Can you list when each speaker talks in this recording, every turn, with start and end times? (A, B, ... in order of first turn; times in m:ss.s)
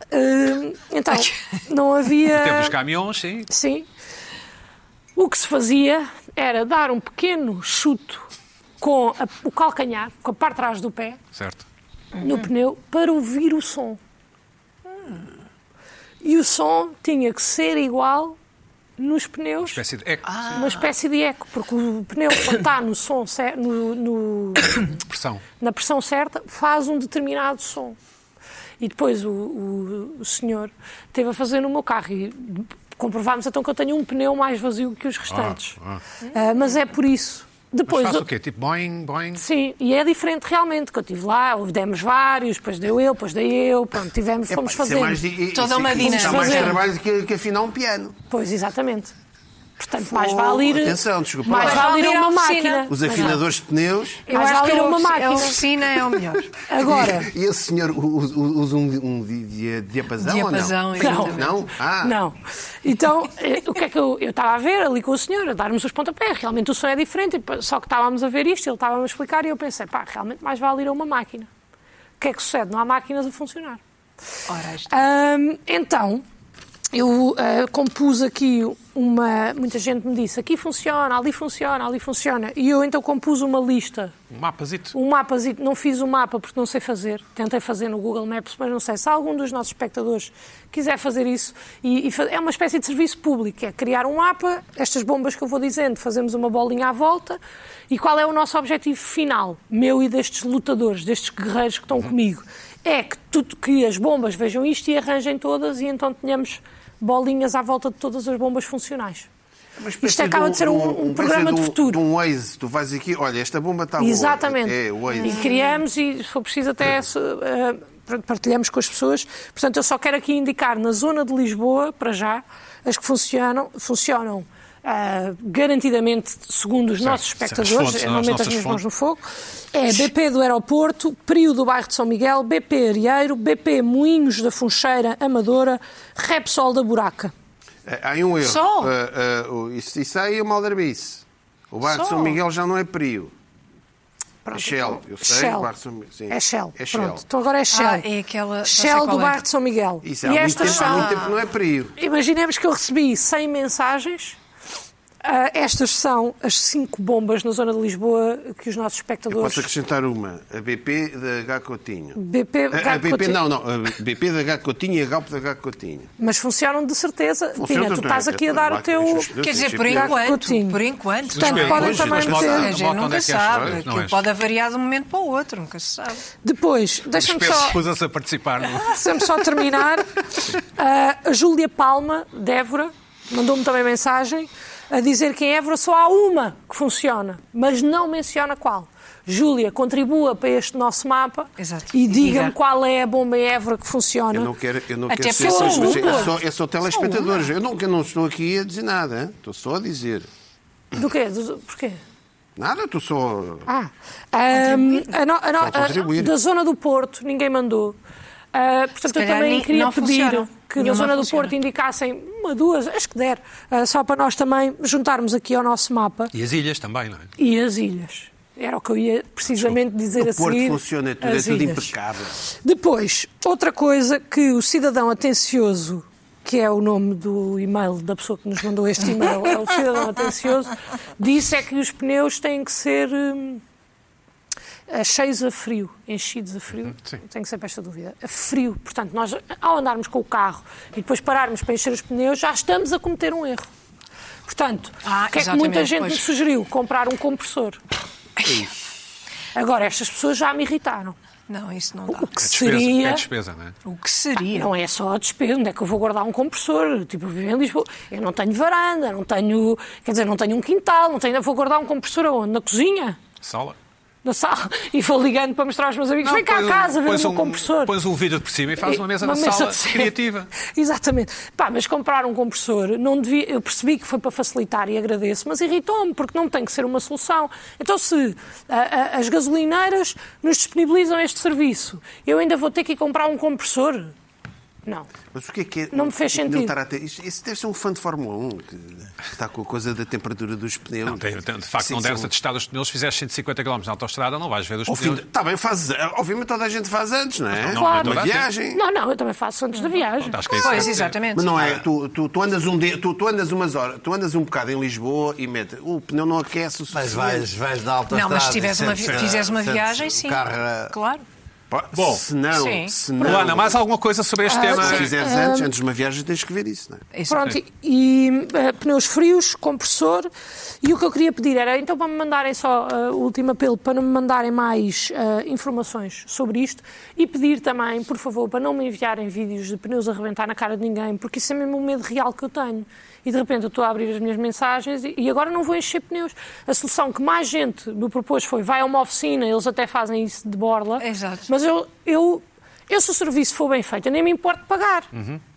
0:00.1-0:02.7 A
0:02.2-0:03.5 B
0:03.5-0:03.9 A
0:05.2-0:08.2 A
0:08.8-0:11.2 A
0:11.3-0:11.6 B
0:12.2-0:14.0 A
0:16.2-0:18.4 A
0:19.0-0:19.8 A
0:19.6-0:20.6 B
0:20.3-0:20.9 C
0:20.5-0:24.9 A
0:25.0-0:25.4 B
0:25.6-0:28.0 A
0:28.8-0:35.8 A
0:35.3-0:36.0 B
0:36.3-0:38.2 A
0:37.9-0:39.4 B
0:39.4-0:45.2 A
0:44.5-0:48.2 D
0:45.5-0:46.8 C
0:46.0-0:46.8 A
0:48.3-0:49.1 A
0:49.8-0:53.4 A
0:50.0-0:52.0 D
0:51.5-0:53.4 C
0:52.9-0:54.3 D
0:54.3-0:56.5 C
0:54.3-0:55.6 A
0:56.7-0:57.3 A
0:56.7-1:02.2 D
1:00.2-1:01.7 C
1:01.0-1:11.5 A
1:12.2-1:13.8 A
1:14.5-1:15.0 C
1:14.9-1:16.2 A
1:16.9-1:24.1 A
1:24.3-1:24.9 B
1:24.9-1:49.3 A
1:49.8-1:55.5 D
1:50.0-1:52.0 A
1:54.0-2:17.3 A
1:55.1-1:55.7 C
2:07.0-2:08.8 B
2:17.8-2:23.3 D
2:18.4-2:18.9 C
2:21.9-2:22.4 C
2:24.4-2:25.7 A
2:24.5-2:27.2 D
2:26.3-2:28.1 A
2:27.7-2:29.4 C
2:28.6-2:31.2 A
2:30.0-2:32.0 D
2:30.5-2:31.3 C
2:32.0-2:34.4 A
2:35.2-2:39.7 A
2:39.3-2:42.2 D
2:42.2-2:43.4 A
2:42.7-2:46.1 D
2:46.2-2:49.3 A
2:47.6-2:50.2 D
2:49.4-2:56.2 C
2:49.9-2:50.8 A
2:51.3-2:54.2 B
2:51.3-2:52.7 A
2:51.6-2:52.7 D
2:56.4-2:57.8 A
2:57.1-2:59.0 B
2:58.8-3:14.5 A
3:11.6-3:12.6 C
3:14.3-3:20.3 D
3:15.1-3:16.3 C
3:15.3-3:16.3 A
3:20.9-3:22.0 A
3:22.6-3:23.7 D
3:23.7-3:28.0 A
3:24.5-3:25.1 C
3:25.6-3:26.3 D
3:28.5-3:36.3 A
3:29.1-3:31.5 C
3:36.3-3:37.3 B
3:37.4-3:41.9 A
3:40.1-3:42.4 D
3:42.5-3:53.6 A
3:54.9-4:03.7 A
4:04.5-4:07.8 A
4:05.0-4:06.3 C
4:09.5-4:11.2 A
4:11.5-4:12.3 C
4:12.1-4:13.2 A
4:12.4-4:13.7 B
4:13.8-4:14.7 C
4:14.5-4:23.2 A
4:23.4-4:23.8 B
4:24.2-4:27.9 A
4:26.2-4:30.5 B
4:28.8-4:44.1 A
4:45.3-4:52.3 D
4:45.9-4:46.7 A
4:51.0-4:55.2 B
4:54.9-4:58.8 D
4:57.6-4:58.5 B
4:57.7-4:58.2 A
4:58.7-5:00.9 A
5:00.2-5:01.7 B
5:00.5-5:01.5 C
5:01.3-5:07.5 D
5:06.9-5:10.9 E
5:08.1-5:11.2 C
5:11.7-5:13.8 D
5:11.9-5:12.2 B
5:12.5-5:13.0 C
5:13.2-5:15.1 B
5:14.5-5:15.7 A
5:14.6-5:17.0 D
5:17.1-5:17.6 C
5:17.3-5:20.3 A
5:20.8-5:45.1 A
5:41.0-5:41.5 C
5:45.1-5:45.4 B